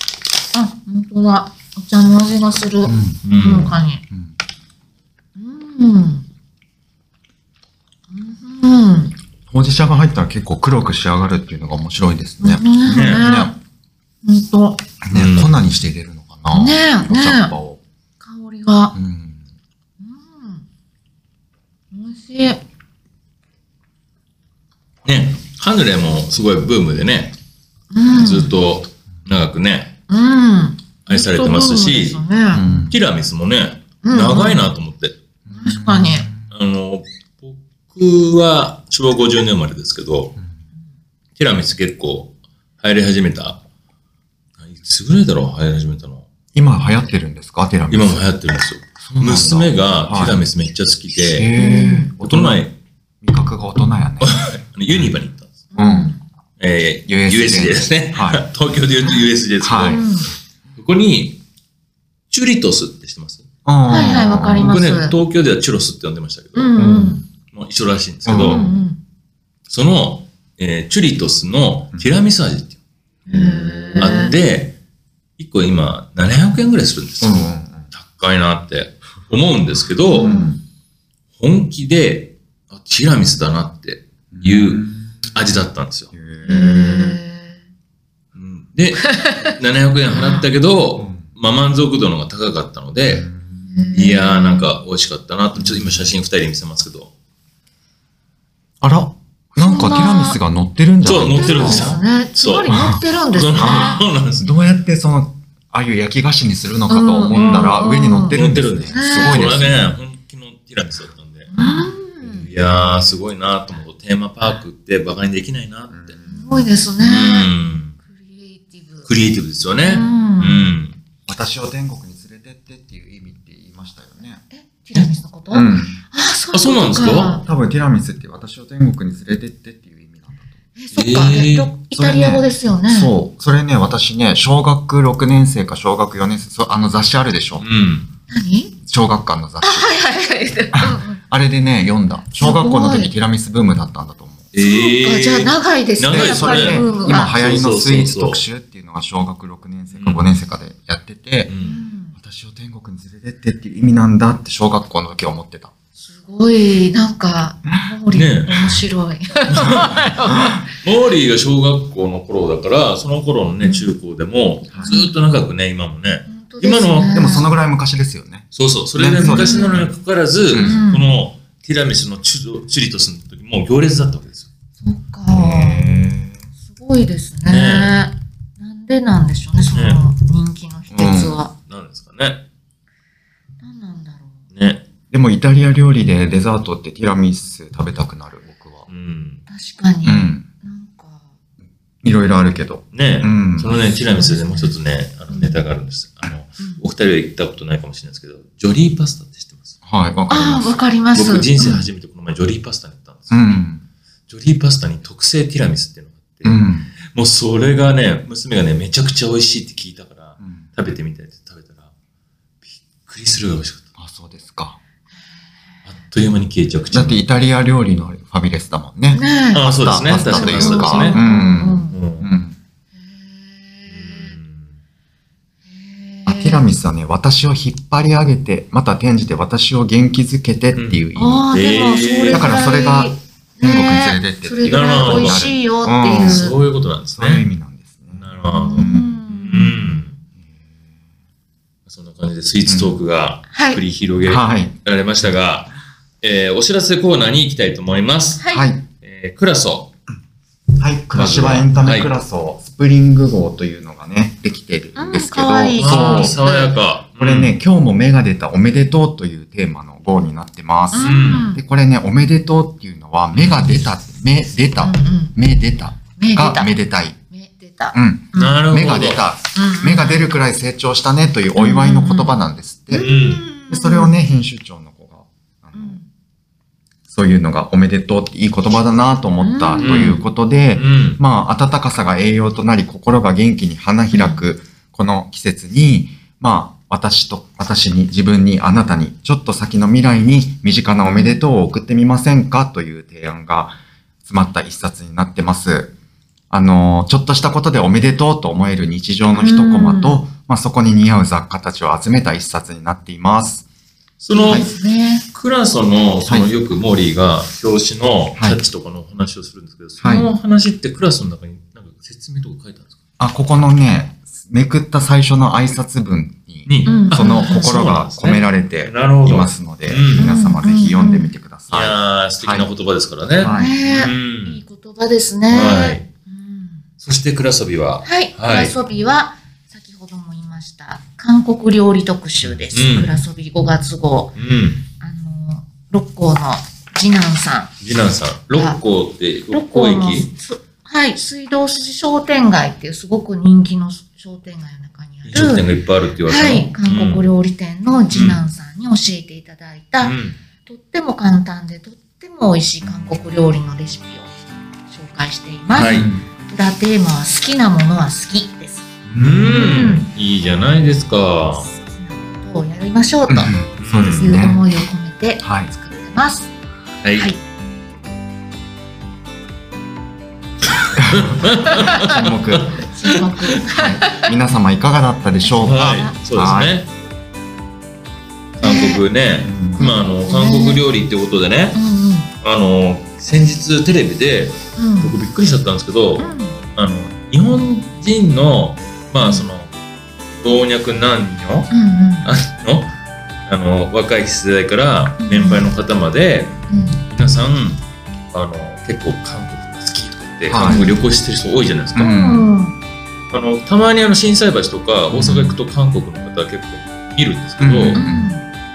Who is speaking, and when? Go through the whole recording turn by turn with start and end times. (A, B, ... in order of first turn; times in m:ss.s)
0:00.5-0:04.0 A
0:02.8-0:04.3 B
0:03.2-0:03.7 C
0:05.4-0:06.2 A
0:08.1-0:09.1 A
0:09.5-0:13.5 B
0:12.4-0:13.5 A
0:12.9-0:13.3 C
0:14.2-0:14.8 A
0:15.0-0:17.8 B
0:15.1-0:15.5 C
0:16.5-0:17.5 A
0:18.2-0:18.9 A
0:18.9-0:19.4 B
0:20.0-0:20.6 A
0:21.9-0:22.6 A
0:25.0-0:27.4 C
0:27.9-0:28.5 A
0:28.1-0:30.0 C
0:30.1-0:32.6 A
0:31.0-0:35.2 C
0:32.5-0:33.0 B
0:34.0-0:34.6 A
0:35.4-0:36.5 B
0:35.5-0:36.3 A
0:36.5-0:40.3 C
0:41.4-0:43.6 C
0:44.6-0:46.3 C
0:46.5-0:48.2 B
0:47.9-0:51.5 C
0:49.0-0:50.4 B
0:51.1-0:52.6 B
0:51.5-0:52.1 A
0:52.2-0:52.7 C
0:53.2-0:54.4 B
0:54.2-0:55.6 C
0:55.7-0:56.2 A
0:55.7-0:56.1 B
0:56.6-1:00.0 C
0:57.1-0:58.5 B
0:59.6-1:00.1 B
0:59.9-1:00.3 A
1:00.8-1:01.4 C
1:02.3-1:03.4 C
1:03.6-1:04.8 B
1:03.9-1:05.1 A
1:04.5-1:06.8 C
1:06.5-1:07.2 A
1:06.8-1:07.2 B
1:07.5-1:08.7 C
1:08.2-1:08.8 B
1:08.4-1:09.0 A
1:09.7-1:12.8 C
1:13.3-1:14.3 A
1:13.3-1:14.3 B
1:14.0-1:14.8 C
1:15.4-1:20.4 C
1:17.2-1:17.9 B
1:20.1-1:20.5 A
1:20.2-1:20.6 B
1:21.4-1:26.1 C
1:24.3-1:25.3 B
1:26.1-1:27.2 B
1:26.4-1:27.6 A
1:28.3-1:33.3 C
1:29.0-1:29.5 A
1:30.1-1:30.5 A
1:31.0-1:31.3 B
1:33.1-1:33.9 B
1:33.7-1:34.7 A
1:33.9-1:37.1 C
1:35.5-1:36.1 B
1:38.8-1:41.9 B
1:39.6-1:40.4 A
1:41.0-1:44.5 C
1:41.1-1:44.0 A
1:42.7-1:43.0 B
1:43.6-1:49.9 B
1:46.9-1:48.4 A
1:47.3-1:47.8 C
1:48.3-1:51.5 C
1:48.9-1:49.4 A
1:51.5-1:52.5 A
1:52.2-1:56.2 C
1:55.9-1:56.7 B
1:56.3-1:59.1 A
1:57.0-1:58.0 C
1:59.1-2:01.0 C
1:59.8-2:00.7 A
2:01.3-2:04.4 B
2:04.5-2:07.4 A
2:05.5-2:06.0 B
2:06.5-2:07.4 C
2:07.2-2:10.5 B
2:10.8-2:13.1 A
2:10.9-2:11.7 C
2:11.9-2:17.6 B
2:17.6-2:18.1 C
2:18.3-2:18.7 A
2:18.8-2:19.9 B
2:19.6-2:21.2 A
2:20.7-2:24.5 B
2:22.4-2:23.1 A
2:24.5-2:28.4 C
2:24.6-2:27.3 A
2:26.0-2:31.5 B
2:29.9-2:30.3 C
2:31.5-2:31.8 C
2:31.6-2:32.1 A
2:32.1-2:35.7 B
2:36.0-2:40.6 A
2:38.1-2:38.7 C
2:39.5-2:47.3 C
2:44.8-2:45.1 A
2:46.3-2:47.5 A
2:47.1-2:49.9 B
2:48.5-2:54.5 C
2:49.2-2:49.8 A
2:50.5-2:50.8 B
2:50.6-2:51.0 A
2:54.8-2:55.8 A
2:55.3-2:56.4 B
2:56.7-3:01.5 A
2:57.4-2:58.1 C
2:59.7-3:00.0 C
3:00.9-3:01.3 B
3:01.7-3:02.4 C
3:03.6-3:04.4 A
3:04.5-3:04.8 C
3:05.1-3:08.9 B
3:08.9-3:09.4 C
3:09.5-3:11.3 A
3:10.0-3:10.4 B
3:12.0-3:13.8 B
3:12.9-3:19.7 C
3:14.0-3:14.7 A
3:15.3-3:15.6 A
3:19.8-3:20.8 B
3:20.3-3:21.8 A
3:21.1-3:23.6 C
3:21.6-3:21.8 B
3:23.3-3:23.8 B
3:24.3-3:31.9 C
3:26.4-3:26.9 B
3:32.6-3:33.8 C
3:34.0-3:34.8 B
3:35.9-3:37.2 C
3:36.9-3:42.6 B
3:39.1-3:42.0 A
3:39.5-3:41.2 C
3:41.9-3:42.3 C
3:43.0-3:44.4 A
3:43.9-3:44.7 C
3:45.7-3:46.6 A
3:46.2-3:51.6 B
3:50.7-3:52.5 C
3:51.1-3:56.6 A
3:52.3-3:56.4 B
3:54.6-3:55.5 C
3:56.1-3:57.4 C
3:57.2-3:59.2 B
3:58.2-4:00.1 C
3:58.5-4:00.2 A
4:01.8-4:08.4 C
4:02.6-4:02.9 B
4:03.5-4:03.8 A
4:04.2-4:04.7 B
4:08.4-4:08.7 A
4:08.5-4:08.8 B
4:09.0-4:09.9 C
4:10.8-4:16.4 B
4:11.1-4:12.1 C
4:15.0-4:16.8 A
4:15.8-4:17.6 C
4:17.2-4:27.2 B
4:20.9-4:21.6 A
4:21.0-4:21.5 C
4:24.8-4:25.3 A
4:26.2-4:26.8 A
4:27.3-4:28.6 A
4:27.9-4:36.0 B
4:28.3-4:29.2 C
4:29.5-4:30.3 A
4:31.6-4:32.3 A
4:32.9-4:34.1 A
4:32.9-4:33.4 C
4:35.7-4:36.1 A
4:37.1-4:55.9 B
4:39.4-4:40.2 A
4:39.8-4:41.2 C
4:44.1-4:44.4 A
4:51.0-4:51.4 A
4:56.5-5:03.7 B
4:59.3-5:00.2 A
5:04.2-5:04.7 C
5:04.3-5:05.2 A
5:04.4-5:04.7 B
5:05.3-5:12.9 C
5:10.0-5:10.3 B
5:13.2-5:22.7 B
5:16.6-5:20.4 C
5:16.8-5:17.8 A
5:20.2-5:21.3 A
5:21.7-5:24.6 C
5:23.4-5:23.7 B
5:23.5-5:26.8 A
5:25.5-5:26.0 C
5:27.0-5:28.7 C
5:28.0-5:34.4 A
5:32.7-5:33.2 C
5:34.4-5:34.8 C
5:35.0-5:37.7 A
5:37.8-5:40.3 C
5:38.5-5:38.8 A
5:39.5-5:45.7 A
5:45.3-5:47.2 C
5:46.3-5:50.1 A
5:48.1-5:48.4 C
5:50.0-5:50.4 C
5:50.6-5:58.8 A
5:55.7-5:56.1 C
5:55.8-5:56.2 B
5:59.1-6:00.0 B
5:59.2-6:01.7 C
5:59.4-6:00.1 A
6:01.6-6:03.5 A
6:03.3-6:04.6 B
6:03.8-6:04.4 C
6:04.1-6:06.5 A
6:05.4-6:05.7 B
6:07.0-6:07.3 C
6:11.0-6:12.8 B
6:11.0-6:13.6 C
6:11.5-6:14.3 A
6:13.7-6:16.7 B
6:15.4-6:16.2 A
6:15.6-6:16.9 C
6:18.6-6:19.0 A
6:18.6-6:21.8 C
6:19.4-6:19.8 B
6:19.8-6:20.8 A
6:21.7-6:22.3 A
6:22.4-6:29.7 C
6:24.8-6:25.1 A
6:26.2-6:26.6 A
6:29.2-6:29.4 A
6:30.4-6:31.7 C
6:31.7-6:32.3 A
6:32.2-6:32.9 C
6:33.5-6:42.1 C
6:35.2-6:35.7 A
6:36.7-6:37.0 A
6:40.5-6:40.9 B
6:40.6-6:40.9 A
6:41.9-6:42.5 B
6:42.0-6:42.8 A
6:43.3-6:48.0 C
6:45.1-6:45.6 B
6:47.6-6:48.3 B
6:47.9-6:48.5 A